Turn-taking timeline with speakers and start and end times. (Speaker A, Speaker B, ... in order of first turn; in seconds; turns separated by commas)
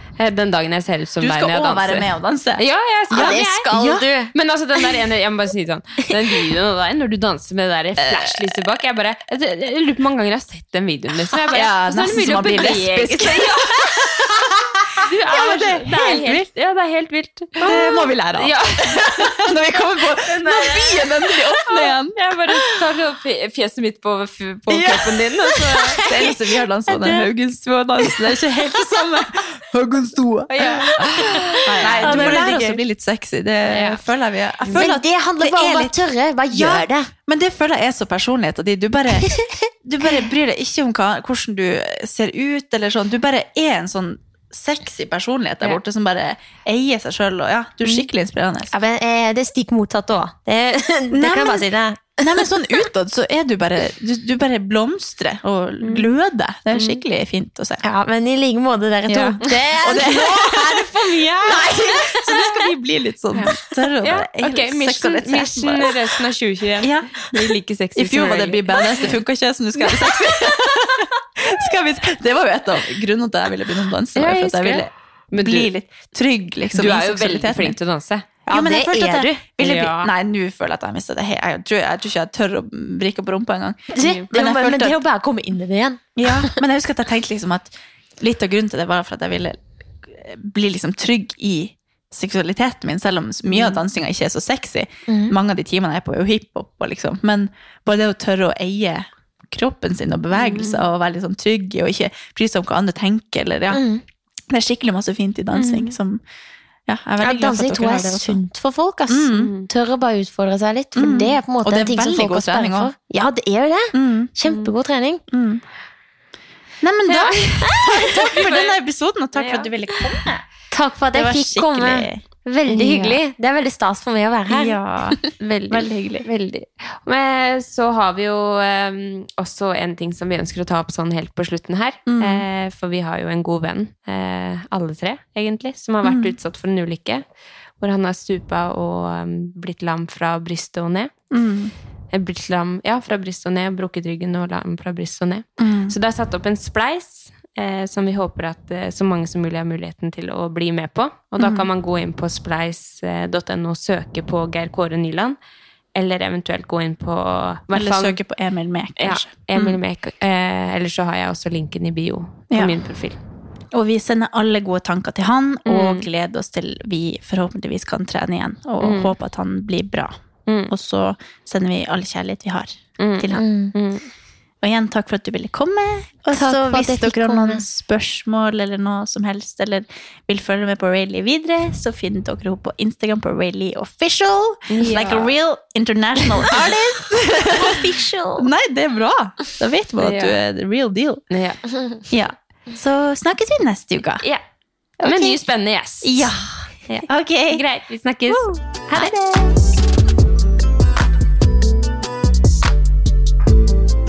Speaker A: 0.2-3.7, Speaker B: 1.2-4.1, Speaker C: 3.1-5.0, Speaker A: 4.3-14.1, Speaker B: 8.0-8.6, Speaker B: 11.5-16.4, Speaker C: 14.1-14.3, Speaker A: 15.0-19.6, Speaker B: 17.6-22.8, Speaker C: 17.6-18.1, Speaker A: 20.1-21.1, Speaker A: 21.7-26.1, Speaker B: 24.7-25.3, Speaker C: 25.9-26.3, Speaker B: 26.0-48.7, Speaker C: 26.9-27.2, Speaker A: 30.5-32.8, Speaker C: 30.7-32.8, Speaker A: 33.7-34.0, Speaker C: 34.7-37.1, Speaker C: 39.2-39.5, Speaker C: 48.7-52.8, Speaker B: 51.1-51.7, Speaker B: 52.2-57.8, Speaker A: 55.8-56.1, Speaker A: 56.7-57.0, Speaker C: 57.8-62.7, Speaker A: 59.1-59.4, Speaker B: 59.8-66.1, Speaker A: 63.4-69.2, Speaker C: 63.5-63.7, Speaker B: 66.8-77.8, Speaker A: 74.2-75.7, Speaker A: 76.7-78.3, Speaker B: 78.5-85.0, Speaker C: 78.5-79.4, Speaker A: 79.6-80.1, Speaker C: 83.9-86.6, Speaker B: 86.2-103.8, Speaker C: 95.1-95.3, Speaker A: 100.4-100.8, Speaker C: 103.7-104.0, Speaker B: 104.5-106.2, Speaker A: 105.6-105.9, Speaker B: 106.9-108.4, Speaker C: 107.2-115.2, Speaker B: 109.1-109.5, Speaker A: 109.3-109.7, Speaker B: 111.0-112.9, Speaker B: 113.9-114.3, Speaker B: 115.3-115.6, Speaker B: 116.8-120.5, Speaker A: 117.1-118.8, Speaker A: 119.3-119.7, Speaker C: 120.7-124.8, Speaker B: 121.1-122.2, Speaker A: 122.7-123.2, Speaker B: 124.5-126.3, Speaker A: 125.4-137.2, Speaker B: 132.1-132.5, Speaker B: 136.0-136.3, Speaker A: 137.8-141.1, Speaker B: 141.3-141.7, Speaker A: 142.1-155.3, Speaker B: 145.6-146.0, Speaker B: 151.4-151.7, Speaker A: 155.9-158.2, Speaker B: 157.7-159.8, Speaker A: 159.0-163.2, Speaker B: 162.5-162.8, Speaker B: 163.7-170.2, Speaker A: 165.7-166.1, Speaker A: 168.8-169.1, Speaker A: 170.5-170.7, Speaker B: 170.7-173.4, Speaker A: 173.0-174.1, Speaker C: 173.3-173.7, Speaker B: 174.6-191.2, Speaker C: 176.3-177.7, Speaker A: 184.7-185.3, Speaker C: 187.7-188.4, Speaker A: 190.0-190.4, Speaker A: 191.3-191.6, Speaker B: 192.1-194.2, Speaker B: 195.0-195.4, Speaker A: 195.0-196.3, Speaker B: 196.0-196.6, Speaker A: 196.9-199.1, Speaker B: 197.1-197.6, Speaker B: 198.3-199.6